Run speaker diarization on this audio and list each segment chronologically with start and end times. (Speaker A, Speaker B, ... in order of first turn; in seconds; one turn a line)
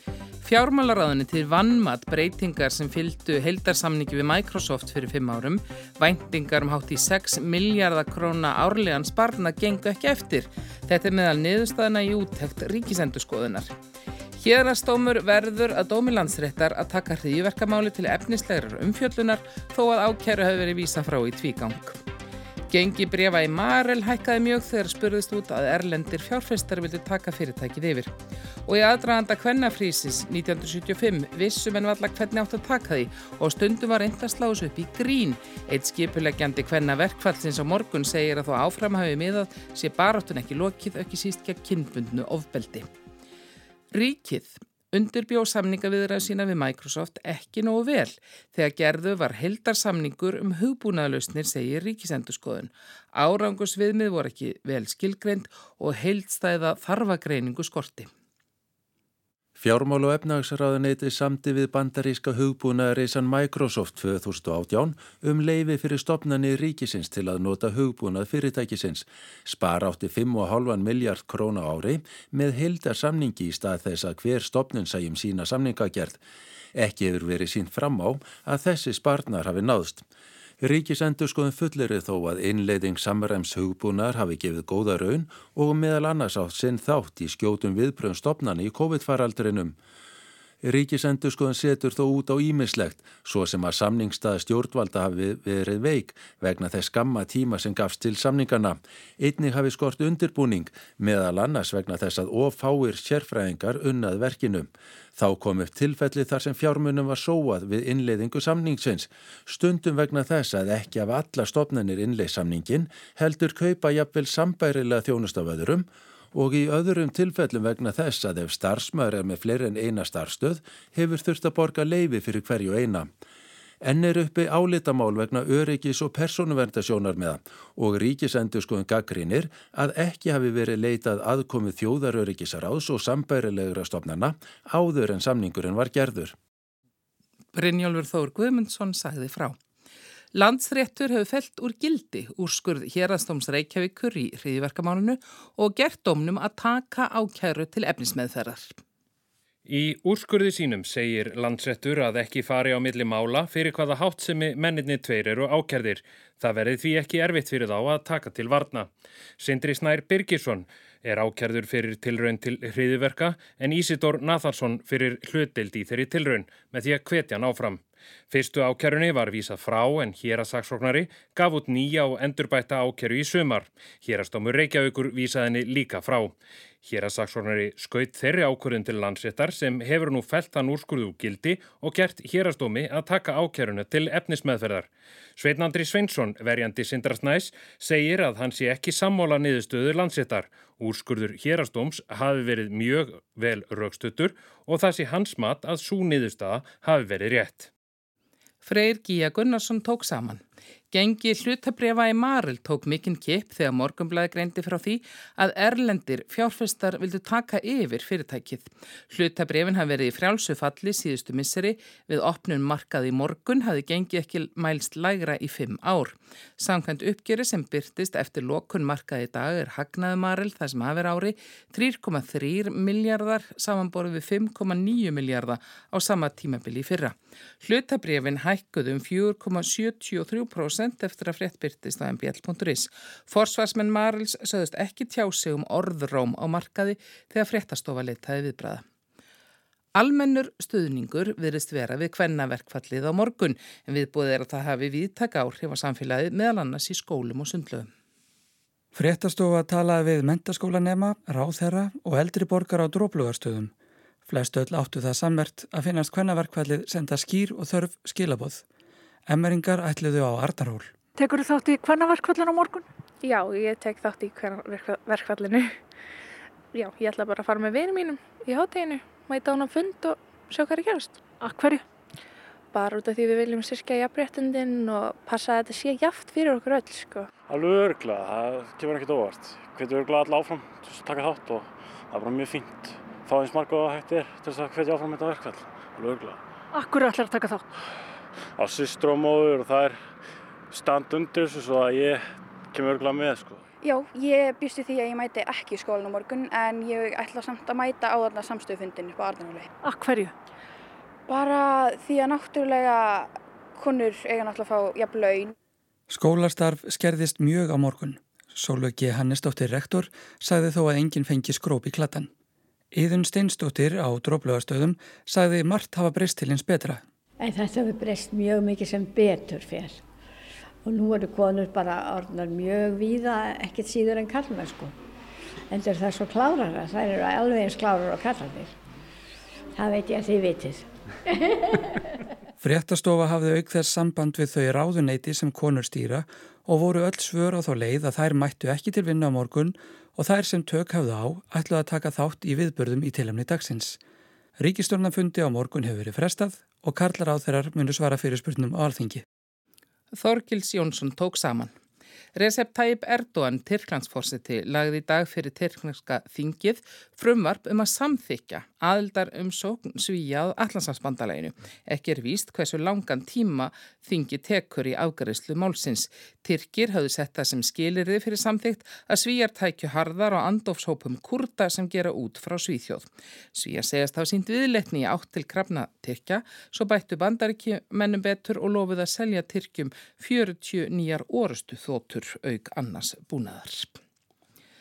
Speaker A: 0.4-13.7
Speaker A: 14.4-22.0
Speaker A: 22.7-28.1
Speaker A: 28.6-42.9
Speaker A: 43.9-58.1
Speaker B: 59.6-76.2
Speaker B: 76.7-80.0
Speaker B: 80.6-89.7
Speaker B: 90.6-123.1
Speaker B: 123.8-136.3
Speaker A: 137.5-139.6
Speaker A: 140.3-148.8
Speaker C: 149.7-197.7
Speaker A: 198.6-238.8
Speaker A: 239.9-247.9
Speaker D: 248.9-253.7
Speaker D: 254.3-258.6
Speaker D: 259.3-260.9
Speaker E: 261.1-262.9
Speaker F: 263.2-265.8
Speaker F: 266.7-271.2
Speaker E: 271.4-271.8
Speaker F: 272.7-277.3
Speaker G: 277.5-286.4
Speaker E: 286.7-287.6
Speaker G: 288.6-290.0
Speaker G: 290.7-292.2
Speaker G: 292.7-293.6
Speaker H: 293.8-299.7
Speaker E: 299.8-300.3
Speaker H: 301.3-305.5
Speaker D: 306.1-312.3
Speaker D: 312.9-317.0
Speaker I: 317.4-320.0
Speaker I: 320.8-324.9
Speaker I: 325.7-328.8
Speaker I: 329.7-331.8
Speaker D: 332.6-344.0
Speaker D: 344.6-349.2
Speaker A: 350.1-351.7
Speaker A: 352.3-384.0